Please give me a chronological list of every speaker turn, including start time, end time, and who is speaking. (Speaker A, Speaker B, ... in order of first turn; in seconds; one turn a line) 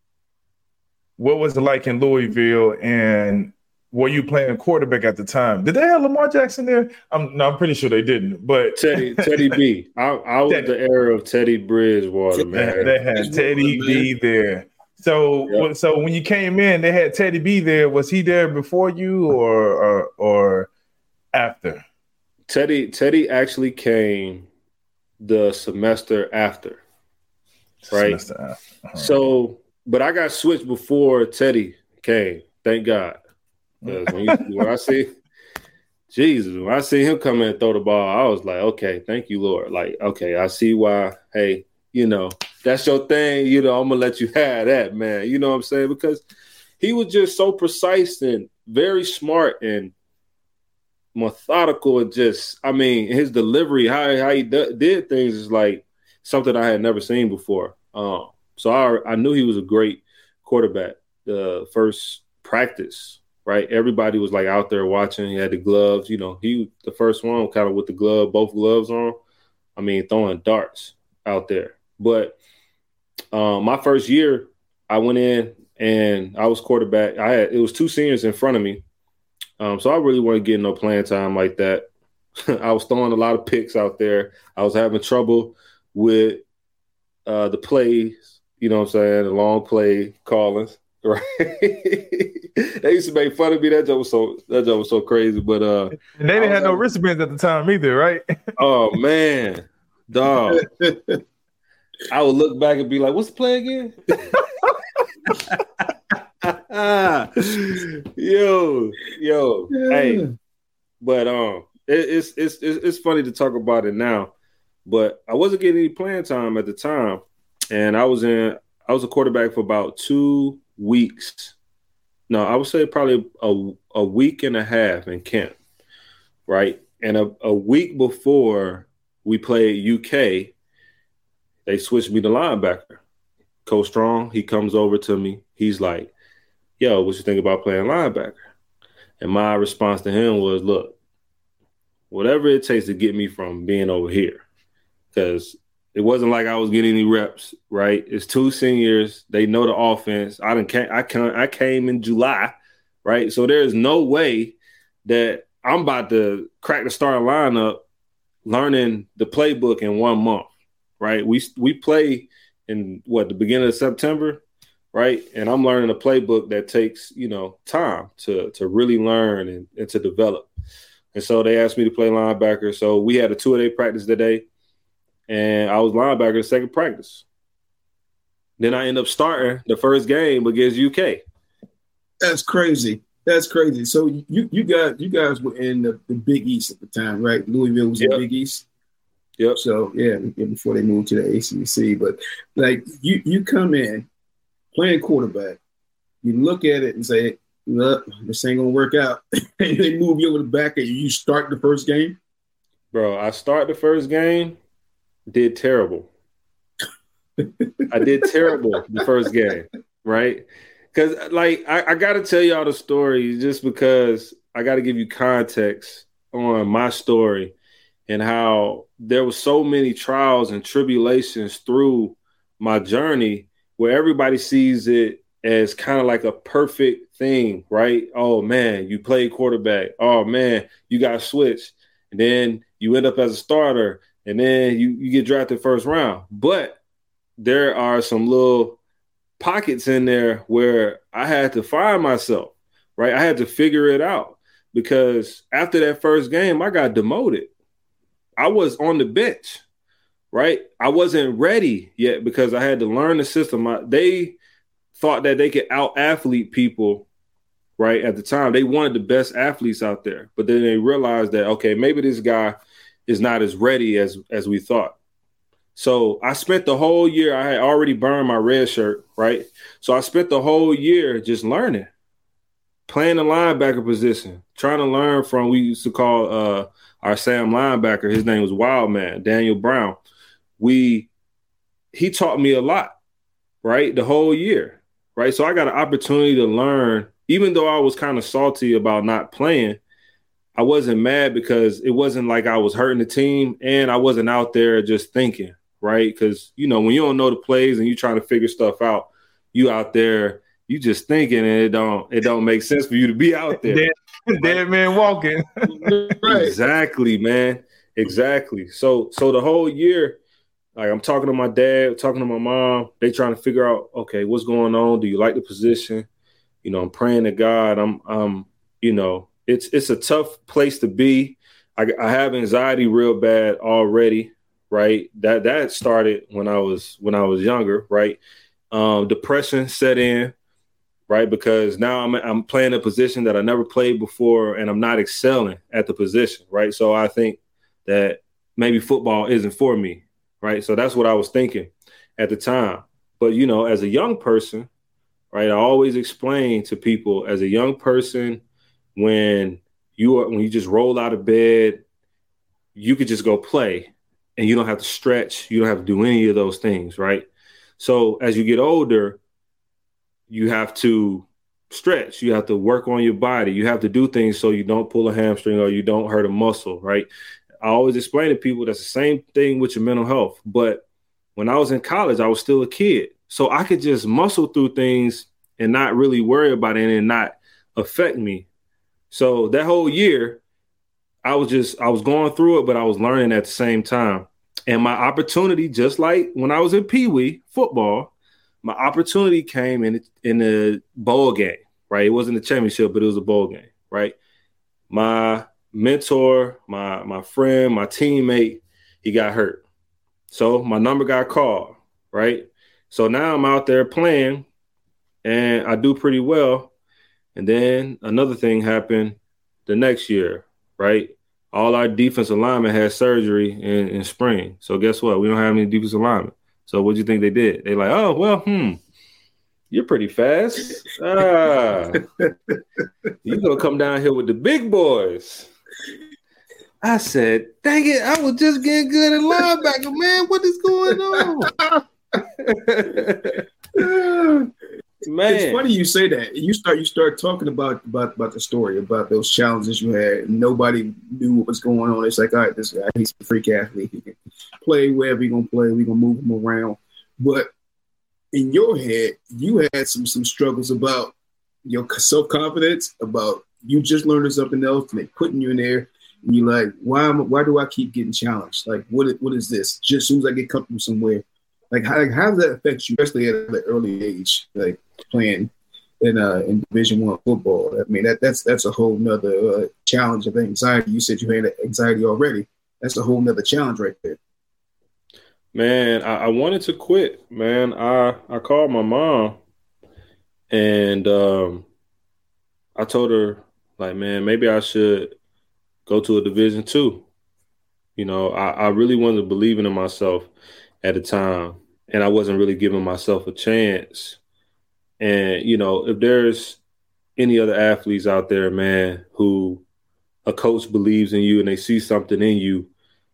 Speaker A: 1.2-9.6
Speaker B: 8.8-13.0
Speaker A: 12.5-20.7
Speaker C: 13.1-14.1
Speaker A: 21.3-21.8
Speaker B: 22.5-24.5
Speaker B: 25.2-26.8
Speaker A: 27.9-29.3
Speaker B: 27.9-28.2
Speaker B: 29.0-33.2
Speaker A: 33.8-34.6
Speaker B: 33.9-35.1
Speaker B: 36.1-46.2
Speaker B: 46.8-49.9
Speaker B: 51.1-69.2
Speaker B: 69.8-72.4
Speaker B: 73.3-78.8
Speaker B: 79.6-81.9
Speaker B: 82.5-86.4
Speaker B: 87.3-96.8
Speaker A: 96.0-98.3
Speaker B: 98.6-100.7
Speaker C: 100.6-101.2
Speaker B: 102.1-104.4
Speaker B: 105.3-105.6
Speaker B: 106.4-110.2
Speaker C: 109.8-110.3
Speaker B: 111.0-114.3
Speaker B: 114.9-121.5
Speaker B: 122.3-125.6
Speaker B: 126.5-130.5
Speaker B: 131.7-133.0
Speaker B: 133.7-136.1
Speaker B: 136.8-138.4
Speaker B: 139.2-140.9
Speaker B: 142.1-144.4
Speaker B: 145.1-157.8
Speaker B: 158.4-164.4
Speaker B: 164.9-170.5
Speaker B: 171.1-174.4
Speaker B: 175.3-177.2
Speaker B: 178.6-181.2
Speaker C: 182.2-188.7
Speaker C: 189.6-194.1
Speaker C: 194.7-195.6
Speaker C: 196.2-202.2
Speaker B: 202.9-204.6
Speaker B: 205.3-206.1
Speaker C: 207.4-207.8
Speaker B: 207.9-217.5
Speaker B: 218.1-236.8
Speaker B: 237.4-238.8
Speaker B: 239.4-247.5
Speaker B: 248.4-249.6
Speaker B: 250.3-254.4
Speaker B: 254.9-257.1
Speaker B: 257.8-264.9
Speaker B: 265.8-271.9
Speaker B: 272.9-280.0
Speaker B: 280.6-281.1
Speaker B: 281.9-282.9
Speaker B: 283.6-289.8
Speaker B: 290.6-303.9
Speaker A: 303.6-306.1
Speaker C: 305.7-306.6
Speaker B: 306.2-310.2
Speaker B: 310.8-316.1
Speaker B: 316.6-328.2
Speaker B: 328.7-330.3
Speaker B: 331.1-344.7
Speaker B: 345.3-348.4
Speaker B: 349.0-351.8
Speaker B: 352.8-357.3
Speaker B: 357.8-359.2
Speaker B: 360.3-367.1
Speaker B: 367.6-370.8
Speaker B: 371.4-378.5
Speaker B: 379.1-380.4
Speaker B: 381.2-388.1
Speaker B: 388.6-394.2
Speaker B: 394.9-399.6
Speaker B: 400.3-404.5
Speaker B: 405.2-406.7
Speaker B: 407.4-418.8
Speaker B: 419.7-422.0
Speaker C: 422.2-422.6
Speaker B: 423.2-425.5
Speaker B: 426.8-431.5
Speaker B: 432.4-433.4
Speaker C: 433.8-434.5
Speaker B: 435.1-435.6
Speaker C: 435.3-447.5
Speaker C: 448.3-451.1
Speaker C: 451.7-474.2
Speaker B: 475.5-479.4
Speaker B: 480.5-481.7
Speaker B: 482.8-485.1
Speaker B: 485.9-487.1
Speaker B: 488.0-490.3
Speaker B: 490.8-494.2
Speaker B: 495.0-496.6
Speaker B: 497.2-499.6
Speaker B: 500.3-502.7